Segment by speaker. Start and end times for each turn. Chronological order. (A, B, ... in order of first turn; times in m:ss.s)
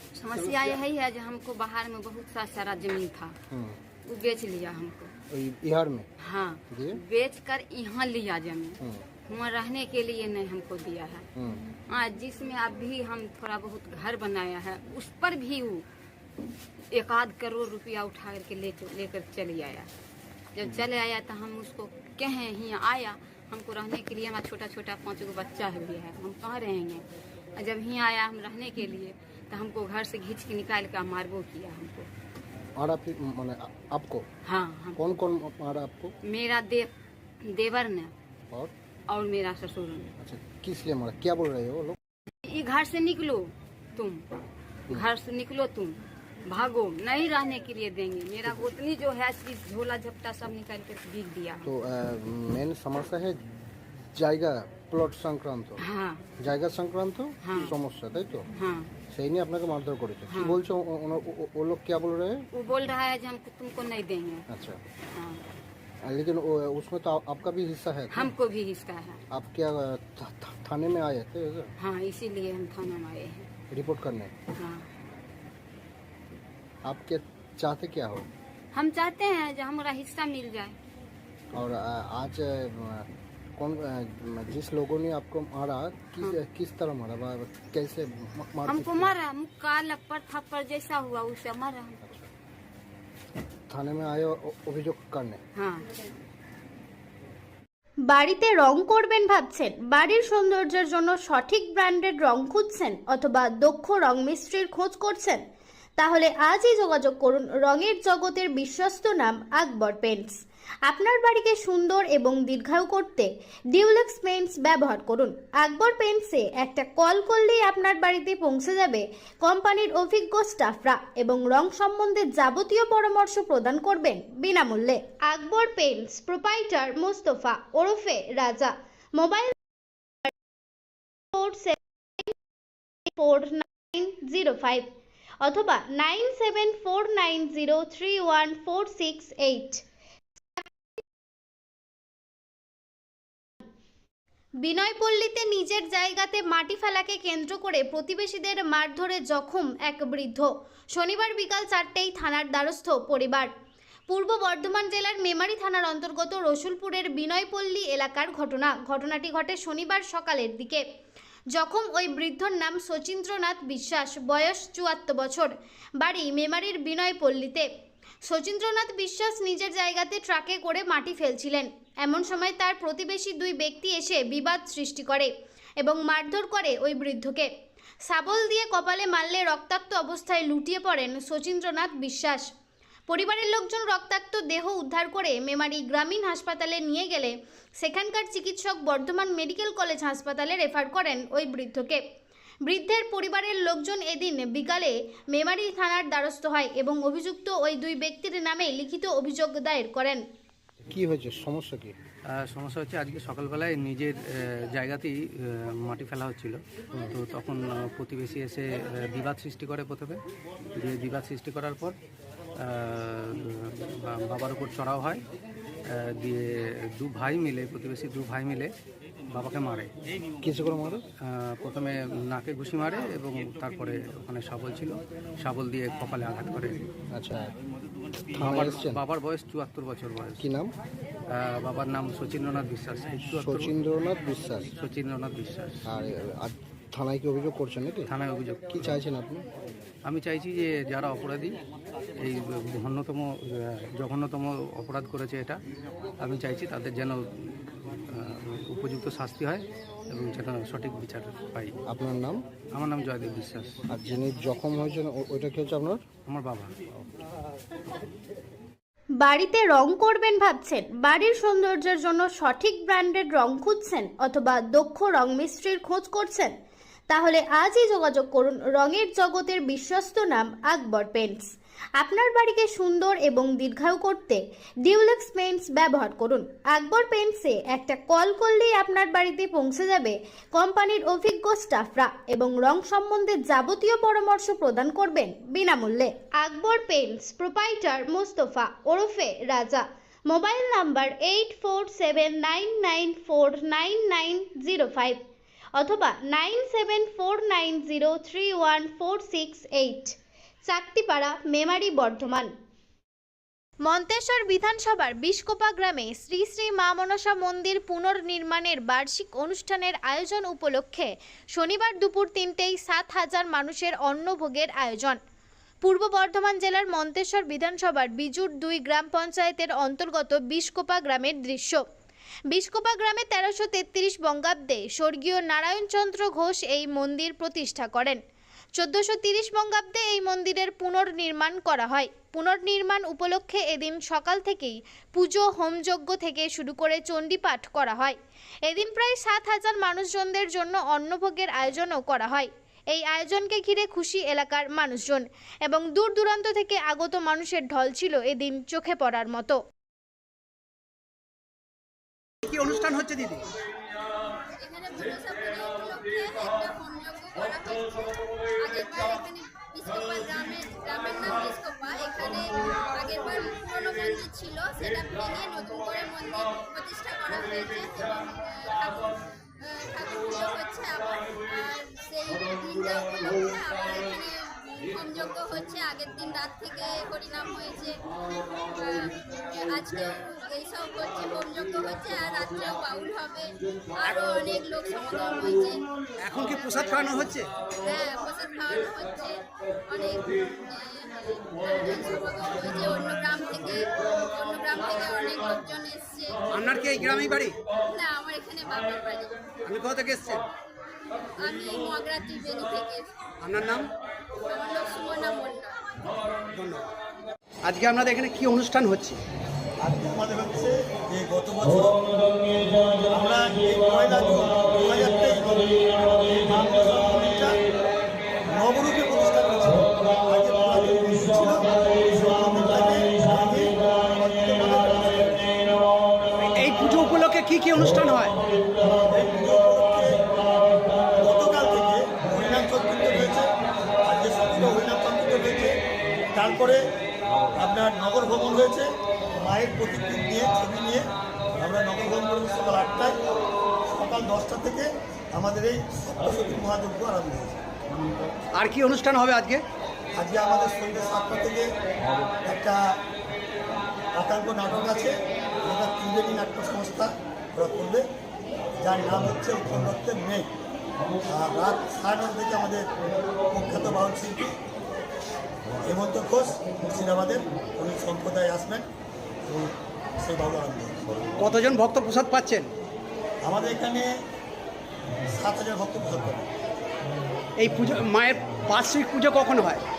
0:00.2-0:03.4 A
0:03.5-0:03.8 B
0:04.1-0:05.1 A
0:05.3-0:06.1 B
0:06.2-0:11.3 A
0:06.7-0:07.0 B
0:11.4-0:11.6 B
0:11.9-0:15.9 A
0:16.9-0:19.9 A
0:20.6-0:27.0 A
0:27.6-0:32.1 A
0:32.8-0:34.3 B
0:34.4-0:35.0 A
0:35.0-0:36.1 B
0:36.2-0:36.9 A
0:37.5-0:38.1 A
0:39.1-0:40.1 A
0:40.2-0:42.0 B
0:42.5-0:44.2 A
0:44.9-0:51.7 A
0:48.4-0:48.7 B
0:51.6-0:53.4 B
0:54.2-0:55.8 B
0:55.8-0:56.2 A
0:56.4-0:58.5 B
0:57.4-0:57.8 A
0:58.5-0:58.9 A
0:59.1-1:02.5 B
1:00.3-1:00.6 A
1:02.5-1:04.5 A
1:04.5-1:04.8 B
1:05.1-1:05.4 A
1:06.0-1:08.3 B
1:08.1-1:09.2 A
1:09.3-1:11.7 B
1:11.8-1:13.5 A
1:13.7-1:14.3 B
1:14.6-1:14.9 A
1:16.8-1:18.3 B
1:18.7-1:20.8 A
1:21.5-1:29.2 B
1:28.7-1:32.0 A
1:32.0-1:32.3 B
1:33.7-1:35.4 B
1:35.6-1:35.8 A
1:38.1-1:45.4 C
1:46.0-2:09.6 C
2:11.4-2:12.3 C
2:13.2-2:14.9 C
2:15.4-2:19.8 C
2:24.6-2:33.5 C
2:34.1-2:40.8 C
2:41.5-2:47.7 C
2:48.3-2:57.5 C
2:58.1-3:02.5 C
3:03.1-3:12.0 C
3:12.6-3:20.2 C
3:20.9-3:22.0 B
3:22.5-3:24.1 D
3:24.8-3:25.2 D
3:25.8-3:30.2 D
3:30.8-3:32.0 D
3:32.6-3:35.2 D
3:37.0-3:38.7 D
3:39.3-3:39.9 D
3:40.4-3:41.0 B
3:41.2-3:46.9 D
3:47.1-3:47.5 B
3:48.4-3:49.0 B
3:48.4-3:50.4 D
3:50.4-3:50.7 B
3:51.3-3:53.7 D
3:53.4-3:54.7 B
3:54.7-3:55.7 D
3:55.9-3:58.1 B
3:58.1-3:59.0 D
3:58.7-3:59.4 B
4:00.1-4:01.6 D
4:02.2-4:03.3 D
4:04.0-4:05.6 D
4:06.2-4:07.2 D
4:08.1-4:11.8 D
4:11.9-4:12.4 B
4:12.8-4:13.8 D
4:13.9-4:16.0 B
4:16.3-4:16.7 D
4:19.2-4:26.5 C
4:27.1-4:55.2 C
4:55.8-5:00.2 C
5:00.7-5:02.5 C
5:03.8-5:15.2 C
5:15.8-5:21.8 C
5:22.5-5:28.2 C
5:28.8-5:49.6 C
5:52.4-5:53.5 E
5:54.6-6:09.1 F
6:09.6-6:18.0 F
6:18.5-6:25.8 F
6:26.2-6:27.5 E
6:27.8-6:36.4 F
6:36.5-6:37.6 E
6:37.8-6:39.3 F
6:39.6-6:40.5 E
6:41.4-6:43.1 F
6:43.4-6:43.9 E
6:44.5-6:45.8 F
6:46.5-6:46.9 E
6:47.7-6:49.2 E
6:49.8-6:52.0 G
6:53.0-6:57.6 G
6:58.5-7:05.5 G
7:06.4-7:08.4 E
7:09.0-7:10.3 G
7:11.2-7:13.5 G
7:14.0-7:15.7 G
7:16.3-7:16.8 G
7:17.6-7:23.2 G
7:23.9-7:27.6 G
7:28.5-7:29.6 E
7:30.2-7:31.7 G
7:32.4-7:32.8 G
7:34.2-7:38.0 G
7:38.8-7:40.5 G
7:41.3-7:42.9 G
7:43.5-7:44.6 G
7:45.8-7:48.9 G
7:49.5-7:51.0 G
7:51.4-7:52.7 E
7:53.4-7:54.1 G
7:55.3-7:56.5 G
7:57.6-7:59.8 E